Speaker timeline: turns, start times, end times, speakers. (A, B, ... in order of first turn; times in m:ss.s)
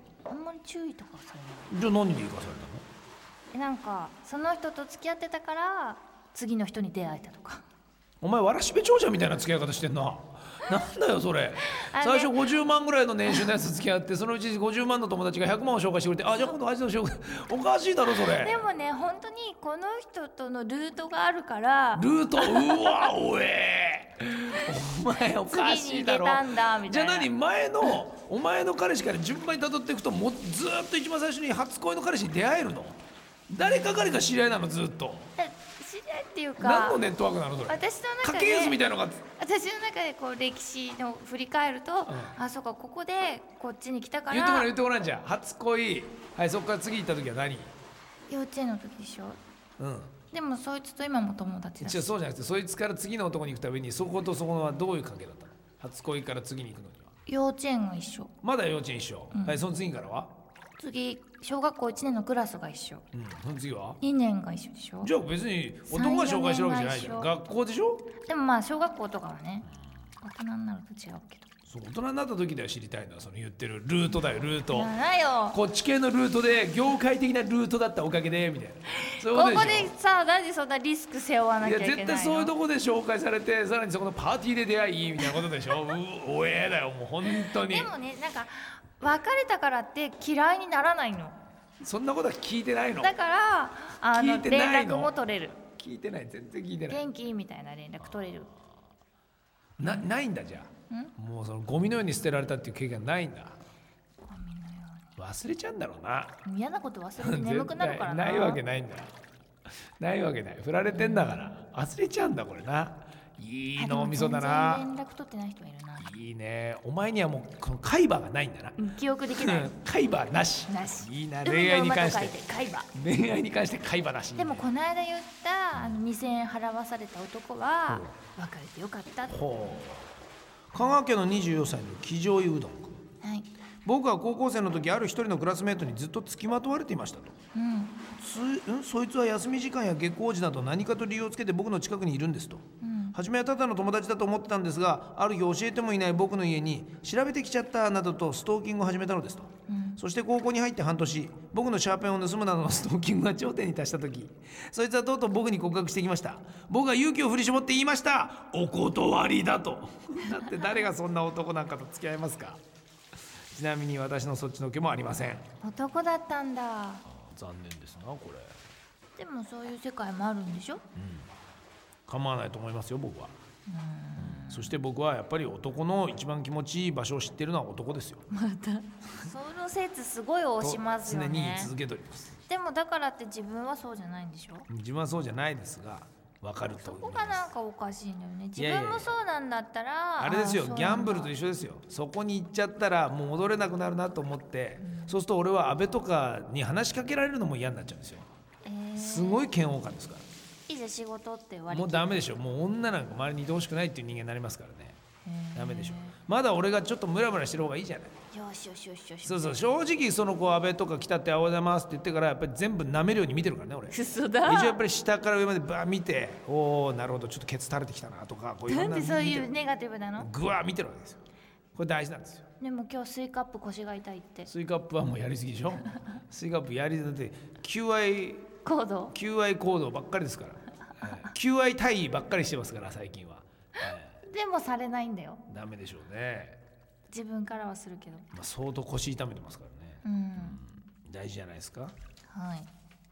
0:00.3-0:01.7 A
0:01.7-0:02.8 B
0:03.5-0:07.6 A
0:08.2-0:18.7 B
0:11.7-0:12.3 A
0:18.0-0:23.1 A
0:22.0-0:33.0 B
0:25.5-0:27.3 A
0:33.5-0:35.3 B
0:33.6-0:34.1 A
0:35.4-0:37.0 A
0:36.6-0:39.2 B
0:37.7-0:38.8 A
0:39.4-0:44.7 A
0:42.1-0:42.4 B
0:44.3-0:47.7 B
0:48.3-0:49.4 A
0:49.8-0:50.1 B
0:50.3-0:52.2 A
0:51.8-0:57.1 B
0:57.3-0:58.3 A
0:58.4-1:00.3 B
0:59.3-0:59.6 A
1:00.8-1:03.0 A
1:03.1-1:04.0 B
1:04.0-1:05.1 A
1:05.0-1:08.1 B
1:05.9-1:07.3 A
1:08.2-1:09.7 A
1:10.2-1:11.5 A
1:11.7-1:14.9 B
1:14.7-1:15.6 A
1:15.5-1:19.9 B
1:19.1-1:22.5 A
1:21.6-1:27.9 B
1:27.3-1:31.4 A
1:31.8-1:33.1 B
1:33.0-1:35.6 A
1:34.1-1:37.0 B
1:36.9-1:38.5 A
1:39.8-1:43.6 B
1:39.8-1:40.1 A
1:44.3-1:45.2 A
1:45.2-1:46.4 B
1:46.4-1:48.6 A
1:47.2-1:49.1 B
1:50.0-1:54.9 B
1:50.9-1:51.5 A
1:53.8-1:56.1 A
1:56.0-1:58.8 B
1:58.8-1:59.8 A
1:59.3-2:02.4 B
2:00.7-2:02.9 A
2:02.9-2:04.7 B
2:04.4-2:09.8 A
2:05.8-2:06.0 B
2:07.9-2:08.1 B
2:09.3-2:10.1 B
2:10.7-2:13.0 B
2:13.2-2:13.5 A
2:13.8-2:17.4 B
2:17.6-2:18.0 A
2:18.2-2:42.6 B
2:22.8-2:23.2 A
2:29.7-2:30.0 A
2:40.2-2:40.8 A
2:43.5-2:45.4 B
2:45.6-2:47.0 A
2:47.1-2:48.6 B
2:49.2-2:50.8 A
2:51.0-2:51.3 B
2:52.1-2:53.4 B
2:53.7-2:54.8 A
2:54.2-2:58.2 B
2:58.3-3:01.7 A
3:00.6-3:02.4 B
3:02.5-3:04.7 A
3:04.7-3:07.5 B
3:06.8-3:11.3 A
3:08.6-3:09.1 B
3:10.2-3:18.3 B
3:14.8-3:15.2 A
3:18.6-3:19.5 A
3:19.0-3:20.2 B
3:20.7-3:22.2 A
3:21.7-3:25.0 B
3:25.2-3:26.2 A
3:25.6-3:28.1 B
3:28.3-3:29.6 A
3:29.2-3:39.5 B
3:33.9-3:34.8 A
3:38.7-3:40.3 A
3:40.2-3:41.2 B
3:41.8-3:42.4 B
3:42.6-3:44.5 A
3:44.5-3:48.5 B
3:48.6-3:49.2 A
3:49.1-3:54.2 B
3:51.0-3:51.3 A
3:54.2-3:55.4 A
3:55.5-3:56.6 B
3:57.1-3:58.3 A
3:58.3-4:01.9 B
4:00.0-4:00.6 A
4:02.3-4:02.7 A